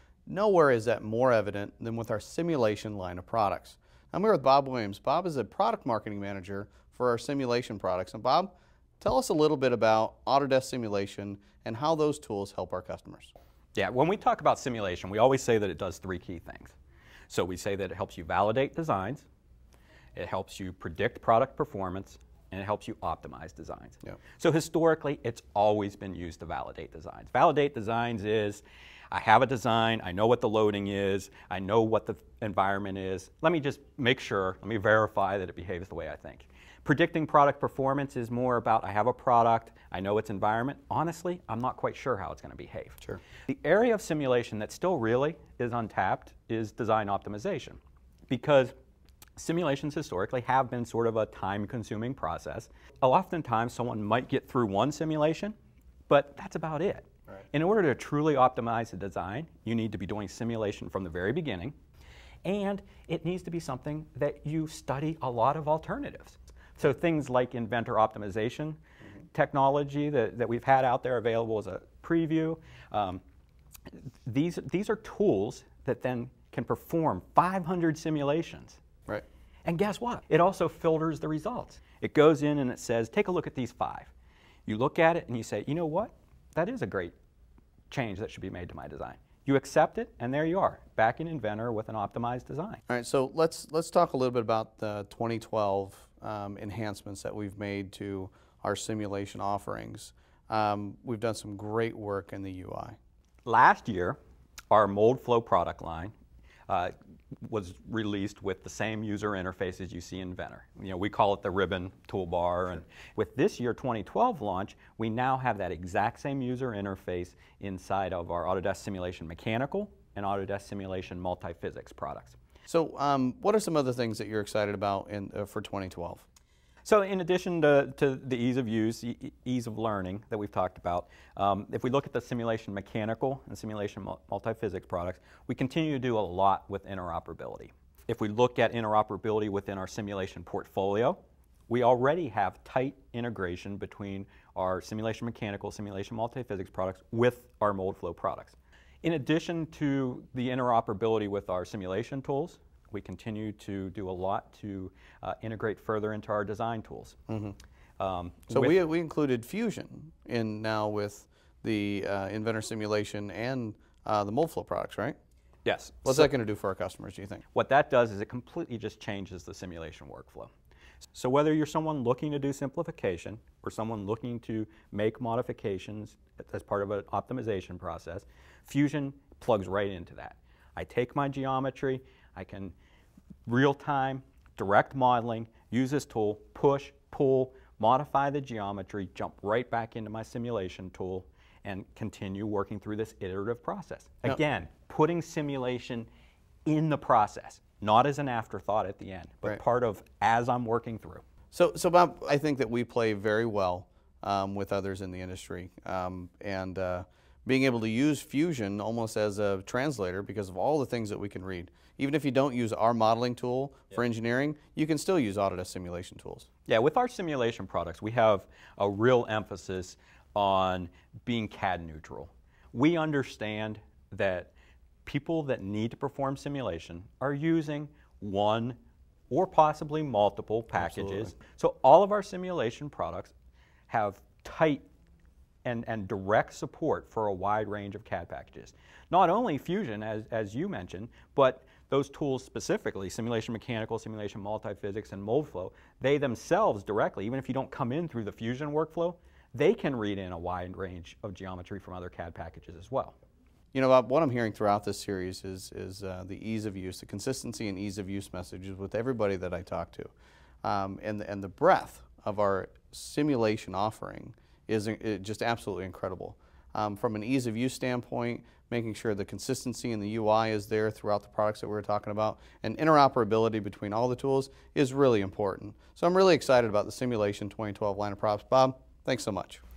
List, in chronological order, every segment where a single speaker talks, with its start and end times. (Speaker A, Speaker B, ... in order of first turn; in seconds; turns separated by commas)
Speaker A: 0.3-13.3, Speaker B: 13.8-16.7, Speaker B: 17.3-19.2, Speaker B: 20.1-48.7, Speaker B: 49.4-55.5, Speaker B: 56.1-61.7, Speaker B: 62.4-68.8, Speaker B: 69.3-73.2, Speaker B: 73.9-78.8, Speaker B: 79.6-84.1, Speaker B: 84.7-87.1, Speaker B: 87.9-92.8, Speaker A: 92.9-103.0, Speaker B: 103.5-104.2, Speaker B: 104.7-106.1, Speaker B: 106.7-122.4, Speaker A: 122.7-126.2, Speaker B: 126.8-141.2, Speaker B: 141.7-157.2, Speaker A: 157.3-157.6, Speaker B: 158.0-158.8, Speaker A: 158.5-165.2, Speaker B: 165.6-166.3, Speaker A: 166.0-167.4, Speaker B: 167.5-170.5, Speaker B: 171.1-182.7, Speaker B: 183.4-196.1, Speaker B: 196.7-201.2, Speaker A: 201.5-216.5, Speaker B: 216.7-224.5, Speaker B: 225.1-228.8, Speaker B: 229.3-233.3, Speaker A: 230.7-231.3, Speaker B: 233.9-234.9, Speaker B: 235.6-253.2, Speaker A: 253.7-260.1, Speaker A: 260.6-279.6